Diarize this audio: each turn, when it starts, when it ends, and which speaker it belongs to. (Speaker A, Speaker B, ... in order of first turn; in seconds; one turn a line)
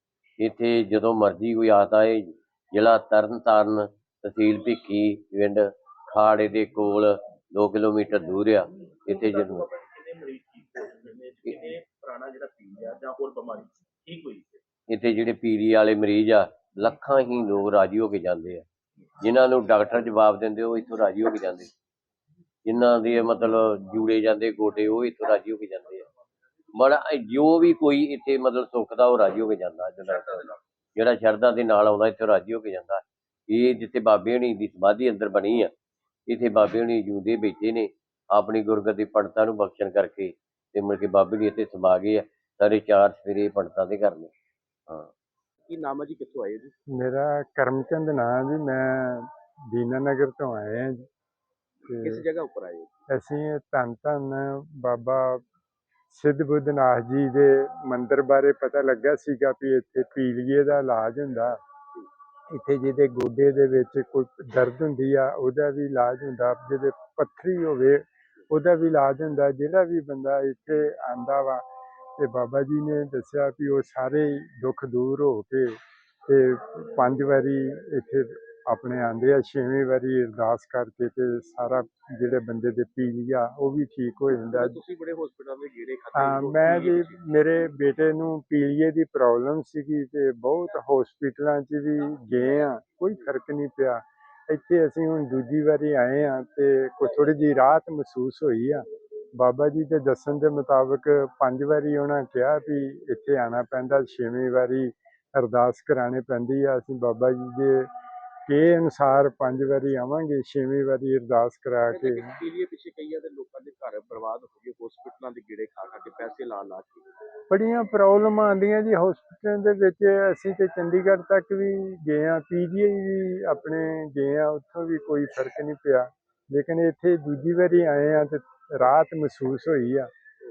Speaker A: 0.4-9.6
Speaker B: 9.0-14.6
Speaker A: 14.9-18.6
Speaker A: 19.2-21.7
Speaker A: 22.6-26.1
Speaker A: 26.7-35.7
Speaker A: 36.3-44.3
Speaker B: 45.7-46.7
Speaker C: 46.9-51.1
Speaker B: 51.8-52.9
Speaker C: 51.9-52.2
Speaker C: 53.1-55.4
Speaker C: 56.1-61.6
Speaker C: 62.5-71.6
Speaker C: 72.2-75.8
Speaker C: 76.3-84.8
Speaker B: 84.5-87.7
Speaker C: 86.1-98.8
Speaker C: 99.4-107.9
Speaker C: 108.5-112.4
Speaker B: 111.9-117.1
Speaker C: 117.5-130.1